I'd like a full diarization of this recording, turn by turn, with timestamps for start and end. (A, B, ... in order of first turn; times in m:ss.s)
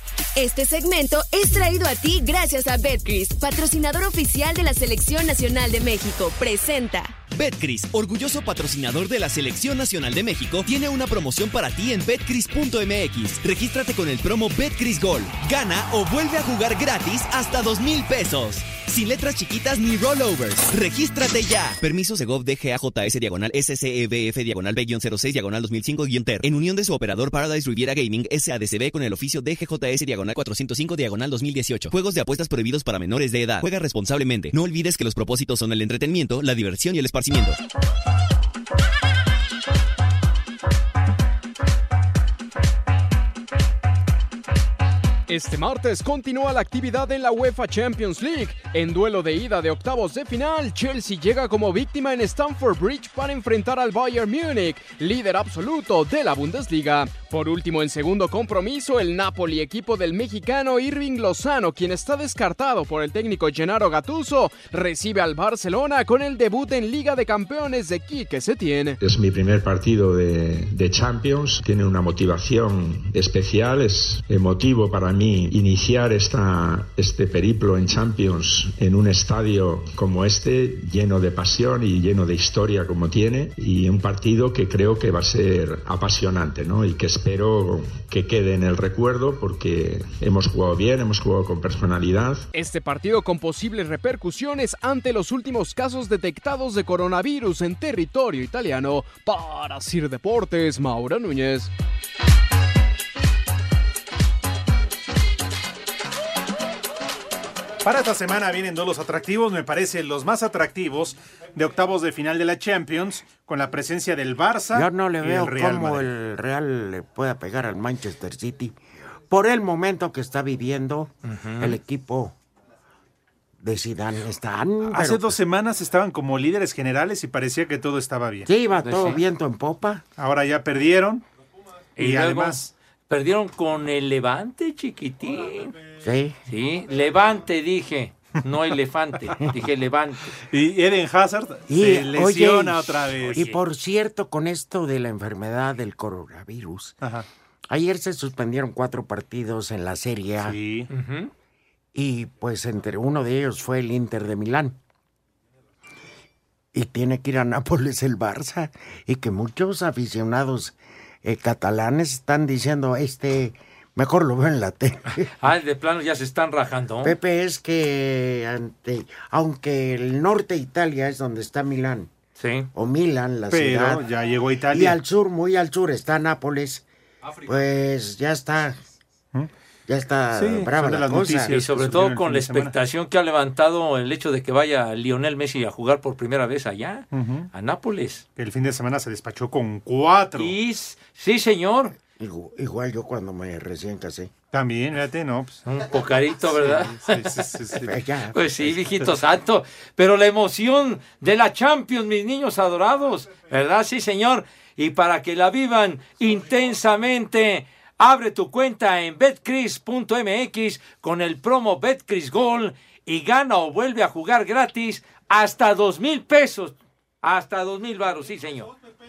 0:00.4-0:07.2 A
0:07.3-0:37.6 B
0:45.3-1:09.0 C
1:09.0-1:32.5 D
1:32.5-1:41.7 C
1:47.8-1:56.1 E
1:54.7-1:58.8 F
1:59.3-2:02.4 F
2:01.2-2:01.8 G
2:03.6-2:05.4 F
2:04.9-2:08.5 E
2:08.4-2:10.0 F
2:08.8-2:09.2 G
2:10.2-2:11.2 E
2:12.0-2:15.8 G
2:12.0-2:12.7 E
2:16.0-2:16.4 F
2:16.5-2:20.4 G
2:20.5-2:23.4 E
2:21.7-2:27.0 F
2:23.2-2:23.6 G
2:27.0-2:27.3 E
2:27.7-2:30.6 F
2:30.4-2:30.9 E
2:30.9-2:31.3 G
2:31.9-2:34.8 F
2:36.7-2:45.3 F
2:45.3-2:47.2 G
2:47.0-2:52.1 F
2:52.4-2:52.7 G
2:52.7-2:54.0 F
2:53.5-2:55.0 E
2:54.7-2:56.8 F
2:57.5-2:58.8 F
2:59.9-3:01.5 F
3:00.3-3:02.7 E
3:01.5-3:08.2 G
3:07.1-3:07.5 E
3:08.4-3:10.6 E
3:10.4-3:12.0 G
3:12.2-3:14.3 F
3:14.5-3:15.6 E
3:15.7-3:17.3 G
3:16.6-3:17.9 E
3:17.8-3:18.8 F
3:18.3-3:38.7 G